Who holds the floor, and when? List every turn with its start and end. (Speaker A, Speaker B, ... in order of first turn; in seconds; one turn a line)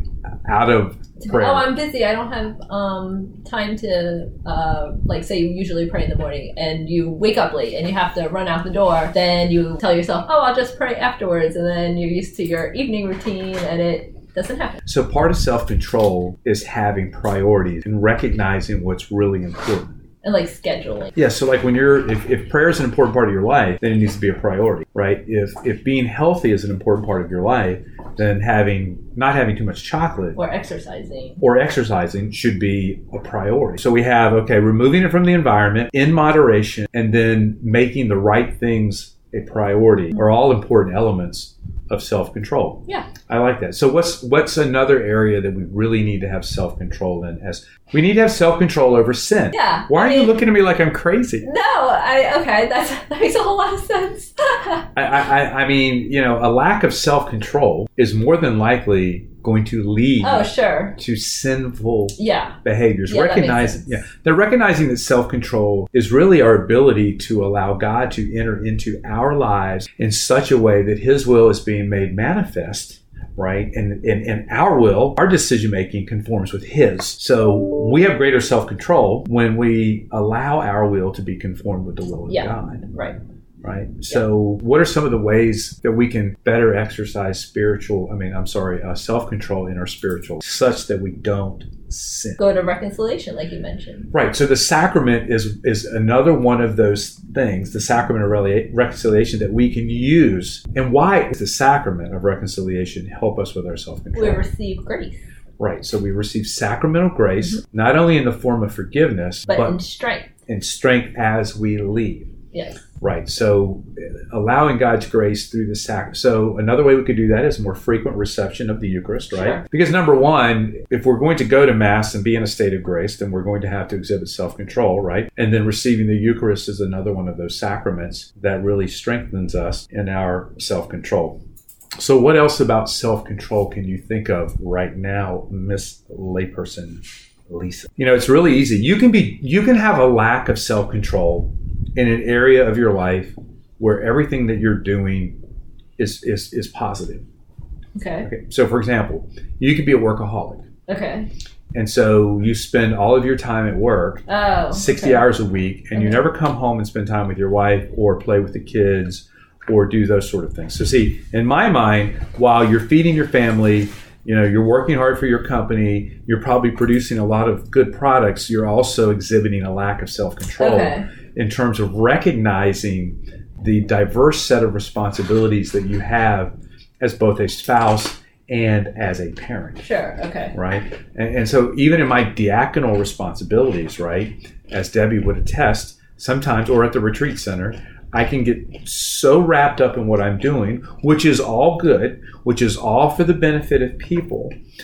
Speaker A: 0.5-1.7
Speaker B: 1.2-14.8
Speaker A: 14.9-20.0
Speaker B: 20.2-21.1
Speaker A: 21.2-30.4
Speaker B: 30.4-31.4
Speaker A: 31.4-51.5
Speaker B: 49.5-50.4
Speaker B: 51.4-54.9
Speaker A: 55.0-82.9
Speaker B: 60.2-61.0
Speaker B: 62.2-64.0
Speaker B: 82.3-83.2
Speaker A: 83.6-92.4
Speaker B: 92.4-94.1
Speaker A: 94.1-104.5
Speaker B: 104.2-105.2
Speaker A: 105.6-109.8
Speaker B: 109.5-110.3
Speaker A: 110.5-112.3
Speaker B: 112.5-112.8
Speaker A: 113.0-131.4
Speaker B: 119.3-119.6
Speaker A: 132.0-145.4
Speaker A: 146.0-147.2
Speaker B: 148.0-148.3
Speaker A: 148.2-150.7
Speaker B: 150.9-151.3
Speaker A: 151.7-179.9
Speaker B: 154.3-155.3
Speaker B: 155.9-156.2
Speaker B: 170.6-171.1
Speaker B: 179.8-180.6
Speaker A: 180.5-194.5